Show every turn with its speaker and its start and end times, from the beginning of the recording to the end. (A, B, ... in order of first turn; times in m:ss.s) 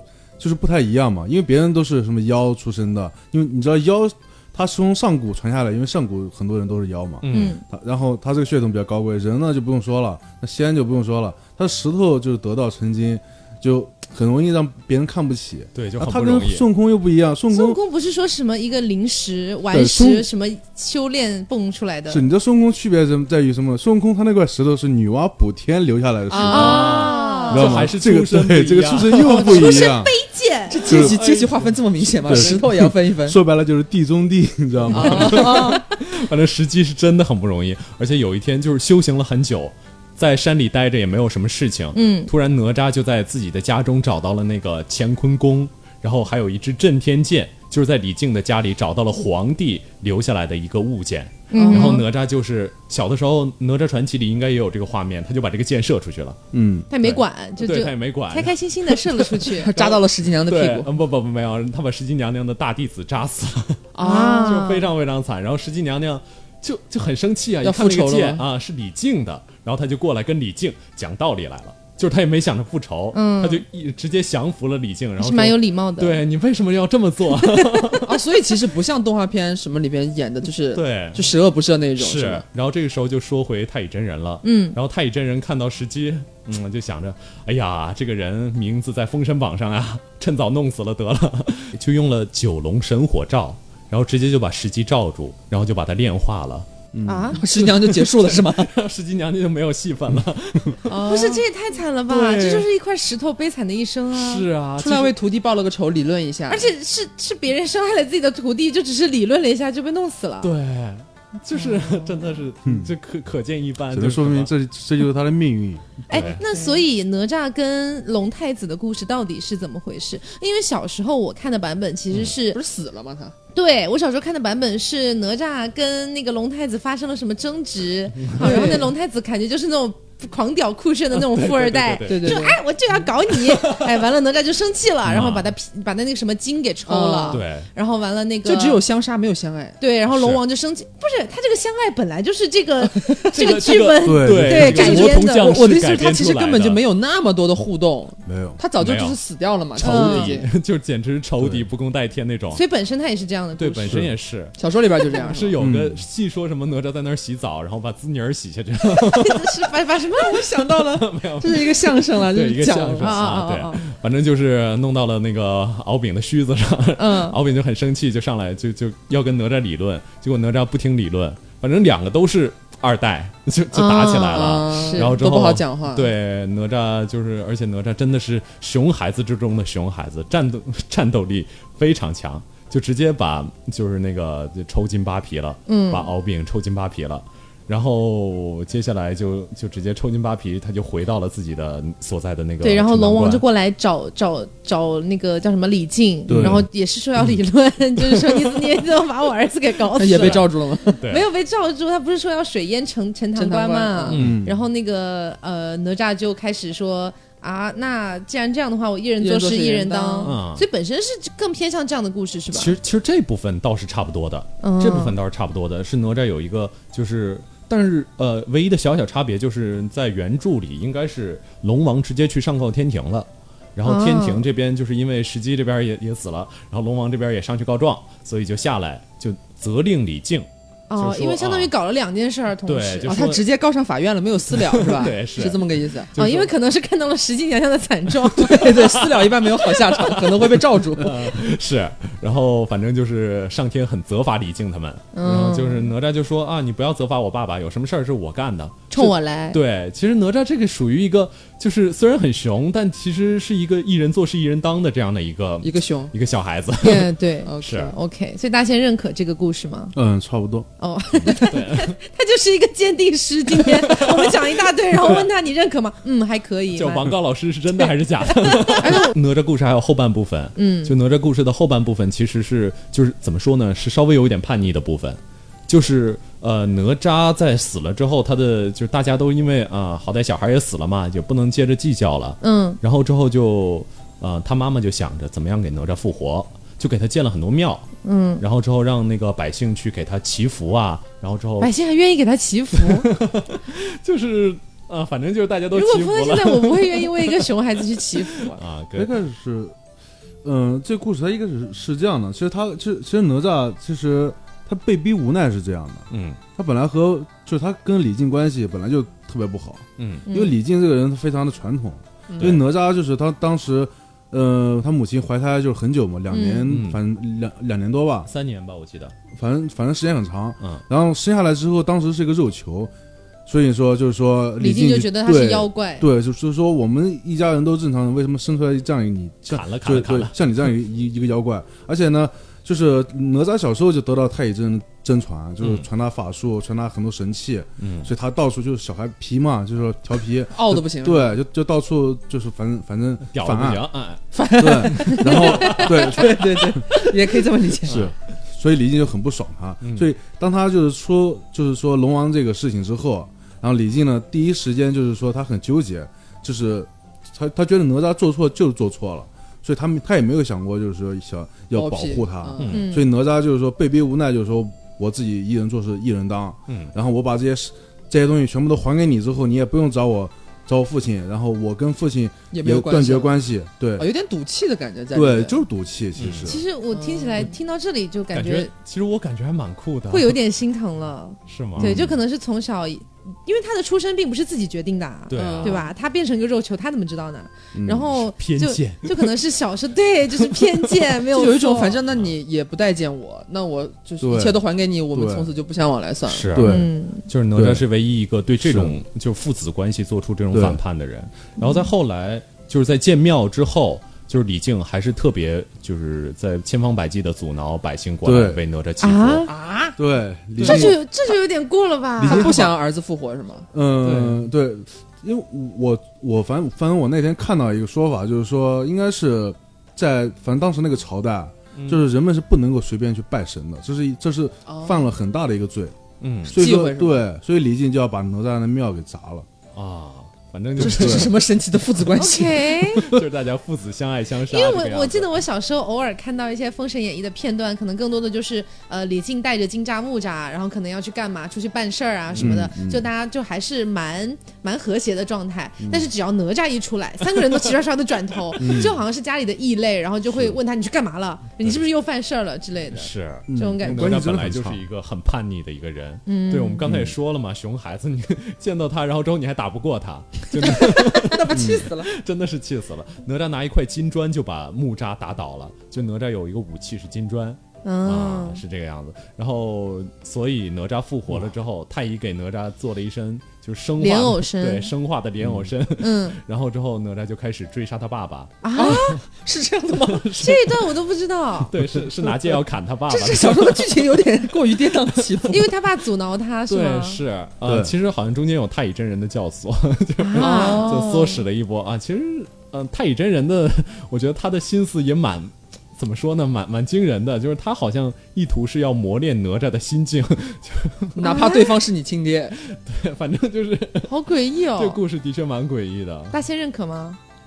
0:00.4-0:17.8 A
0:07.2-0:07.6 B
0:07.3-0:07.6 C
0:15.8-0:16.7 B
0:17.5-0:22.2 C
0:19.7-0:20.3 A
0:22.1-0:30.1 A
0:26.3-0:27.7 D
0:26.4-0:29.7 B
0:26.5-0:27.8 C
0:29.2-0:30.8 C
0:30.7-0:33.4 D
0:30.8-0:31.2 A
0:30.9-0:32.7 B
0:32.2-0:35.6 A
0:34.9-0:56.4 B
0:34.9-0:35.8 D
0:35.2-0:35.8 C
0:41.9-0:42.3 C
0:51.5-0:52.0 C
0:51.6-0:52.0 D
0:56.5-0:56.9 A
0:56.9-0:59.7 C
0:57.0-1:18.2 B
0:59.6-1:00.9 D
1:04.0-1:04.8 D
1:04.0-1:04.9 C
1:07.6-1:08.4 D
1:13.1-1:13.6 C
1:15.2-1:16.2 C
1:17.4-1:18.0 C
1:18.0-1:22.4 D
1:20.7-1:21.4 B
1:22.0-1:36.7 B
1:24.4-1:24.8 C
1:36.9-1:37.4 A
1:37.1-1:37.4 C
1:37.3-1:38.7 D
1:37.5-1:41.3 B
1:40.8-1:44.5 C
1:42.1-1:42.7 B
1:44.1-1:45.2 B
1:44.8-1:46.7 D
1:46.5-1:50.5 C
1:50.4-1:54.5 B
1:51.6-1:52.5 C
1:52.6-1:52.9 A
1:53.9-1:56.0 A
1:56.1-1:56.4 B
1:56.1-2:02.6 C
2:02.5-2:03.4 D
2:03.5-2:18.8 C
2:08.2-2:08.8 B
2:08.4-2:08.9 D
2:11.2-2:12.6 B
2:12.1-2:12.6 D
2:13.3-2:13.9 B
2:15.1-2:15.5 B
2:16.9-2:17.4 D
2:17.3-2:17.7 B
2:18.4-2:19.8 D
2:19.8-2:25.6 C
2:20.1-2:20.4 B
2:23.3-2:26.8 B
2:24.0-2:24.7 A
2:24.5-2:30.5 D
2:28.3-2:28.6 A
2:28.8-2:29.2 B
2:29.7-2:32.6 B
2:29.8-2:30.4 C
2:31.4-2:31.7 A
2:32.5-2:34.1 C
2:33.6-2:34.6 B
2:33.9-2:34.1 A
2:34.6-2:35.5 D
2:35.1-2:35.4 C
2:35.2-2:39.6 B
2:35.6-2:36.0 A
2:38.9-2:40.5 C
2:40.1-2:43.2 D
2:40.8-3:13.4 B
2:43.0-2:43.8 C
2:47.0-2:47.4 C
2:53.7-2:55.2 C
2:54.3-2:56.1 D
3:05.7-3:06.1 C
3:12.6-3:32.7 C
3:16.3-3:16.7 A
3:16.3-3:16.7 B
3:20.0-3:21.0 D
3:20.1-3:21.3 B
3:23.4-3:24.3 D
3:24.1-3:24.4 B
3:24.1-3:24.6 A
3:29.2-3:30.4 D
3:30.2-3:30.7 B
3:32.5-3:51.7 B
3:34.6-3:35.2 C
3:43.8-3:44.5 C
3:50.9-3:53.1 C
3:52.7-3:53.4 B
3:53.1-3:56.1 D
3:54.5-3:56.5 B
3:56.2-3:58.9 C
3:58.4-4:01.2 D
3:58.7-4:17.9 B
4:05.1-4:05.9 C
4:08.9-4:09.6 C
4:15.6-4:16.1 D
4:16.8-4:20.0 C
4:17.4-4:17.9 D
4:20.0-4:20.7 A
4:20.8-4:27.2 C
4:21.2-4:22.0 B
4:23.6-4:24.4 B
4:26.8-4:47.9 B
4:27.8-4:29.1 C
4:28.8-4:29.1 D
4:30.6-4:30.9 C
4:42.4-4:42.8 C
4:48.0-4:48.4 C
4:48.4-4:51.7 B
4:51.6-4:53.1 C
4:52.8-4:59.1 B
4:55.7-4:58.6 C
4:58.9-4:59.8 A
5:00.4-5:18.3 A
5:06.1-5:06.4 B
5:10.0-5:10.3 B
5:10.3-5:10.6 C
5:12.3-5:12.6 D
5:16.3-5:16.7 C
5:16.7-5:17.0 B
5:18.3-5:19.2 B
5:19.3-5:22.9 A
5:23.5-5:43.9 A
5:24.6-5:26.1 C
5:29.5-5:30.4 B
5:35.6-5:35.9 B
5:37.8-5:38.1 B
5:40.5-5:41.4 D
5:43.3-5:47.2 B
5:44.3-5:48.0 D
5:44.6-5:46.8 A
5:47.8-5:48.2 B
5:47.9-6:14.1 A
5:49.8-5:50.1 B
6:01.7-6:02.8 D
6:02.6-6:02.8 B
6:02.7-6:03.1 C
6:06.7-6:06.9 B
6:12.5-6:13.4 D
6:14.0-6:15.6 D
6:15.1-6:16.6 A
6:16.2-6:16.6 B
6:16.4-6:18.7 C
6:16.9-6:17.5 D
6:18.3-6:20.4 B
6:20.1-6:32.0 C
6:21.5-6:22.2 B
6:21.8-6:22.2 A
6:25.3-6:25.9 B
6:25.4-6:25.9 D
6:27.7-6:28.1 A
6:28.1-6:29.3 B
6:30.4-6:31.0 B
6:31.3-6:36.6 D
6:32.1-6:32.4 B
6:34.2-6:35.5 A
6:36.3-6:49.5 B
6:36.5-6:36.9 A
6:36.6-6:37.2 C
6:37.6-6:37.8 A
6:38.6-6:39.0 A
6:40.5-6:40.8 A
6:41.6-6:41.9 C
6:48.2-6:48.6 A
6:49.0-6:49.9 C
6:50.0-6:51.0 A
6:50.6-6:52.5 C
6:52.2-6:52.8 A
6:52.2-6:53.7 D
6:53.7-7:09.5 A
6:54.0-6:54.4 B
7:01.8-7:02.0 B
7:04.7-7:05.0 D
7:06.2-7:06.6 B
7:06.6-7:07.2 D
7:09.7-7:11.4 B
7:10.8-7:11.4 A
7:10.8-7:12.8 D
7:12.2-7:13.1 C
7:13.0-7:15.3 B
7:14.5-7:34.2 C
7:22.4-7:23.0 A
7:25.8-7:26.1 A
7:28.6-7:29.0 A
7:31.6-7:31.9 B
7:32.9-7:59.1 B
7:33.5-7:34.8 A
7:36.3-7:36.9 C
7:36.8-7:37.2 A
7:40.6-7:42.1 D
7:41.5-7:41.9 A
7:47.8-7:48.6 C
7:54.0-7:54.9 C
7:55.4-7:55.7 A
7:56.0-7:56.4 C
7:58.6-7:59.2 C
7:58.8-8:00.3 D
7:59.9-8:00.9 B
8:00.4-8:01.7 C
8:01.6-8:04.0 B
8:02.2-8:05.7 D
8:05.5-8:07.2 C
8:06.7-8:21.5 B
8:07.6-8:07.9 A
8:10.2-8:11.4 C
8:10.4-8:11.2 D
8:21.2-8:22.6 D
8:21.2-8:21.8 C
8:22.5-8:24.1 B
8:24.1-8:25.0 C
8:24.8-8:26.4 B
8:26.3-8:27.2 C